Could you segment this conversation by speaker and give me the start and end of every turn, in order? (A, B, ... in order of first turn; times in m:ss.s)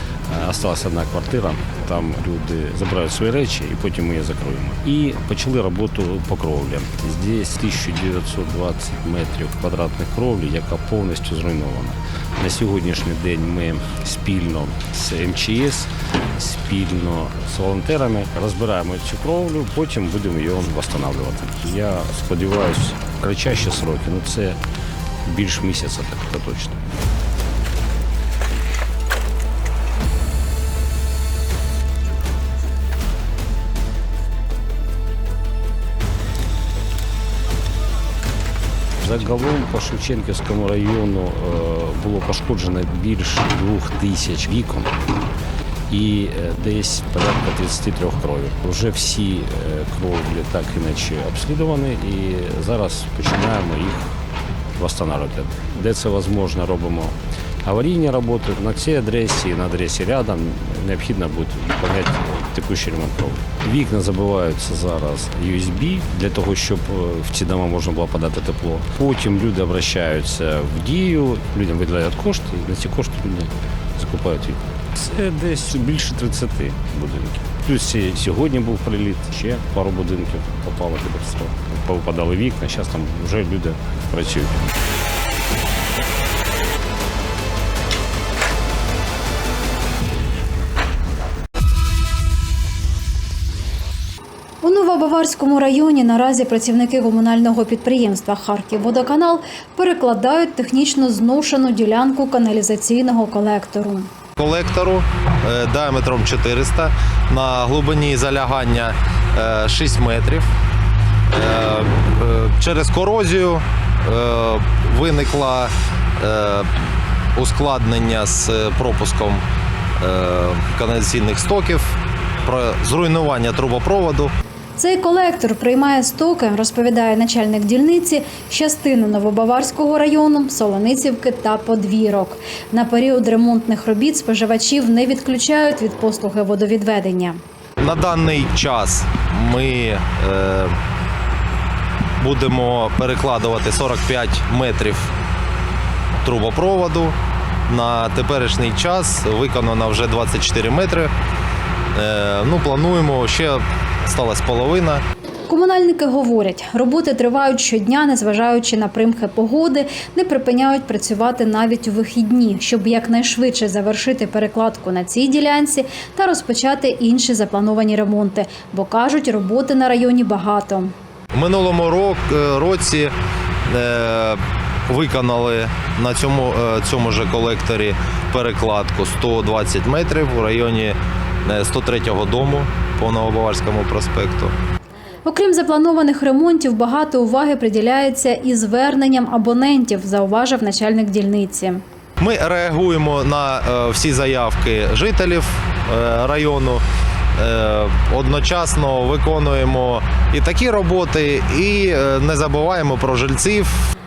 0:00.3-0:24.6 A
0:25.2-0:26.8 A
0:39.0-0:44.9 A
0:45.9-0:54.1 A
0:54.8-1:24.6 A
1:34.6-1:44.1 B
1:44.4-1:50.5 C
1:51.3-1:56.7 C
1:57.4-1:59.4 C
2:00.0-2:04.3 C
2:04.8-2:17.4 B
2:17.8-2:20.8 C
2:22.2-2:25.1 C
2:26.2-2:27.2 C
2:27.7-2:31.1 C
2:32.0-2:35.0 C
2:35.5-2:50.9 B
2:51.3-2:53.1 C
2:53.7-3:04.5 C
3:05.3-3:11.8 B
3:12.2-3:16.8 C
3:17.4-3:23.9 C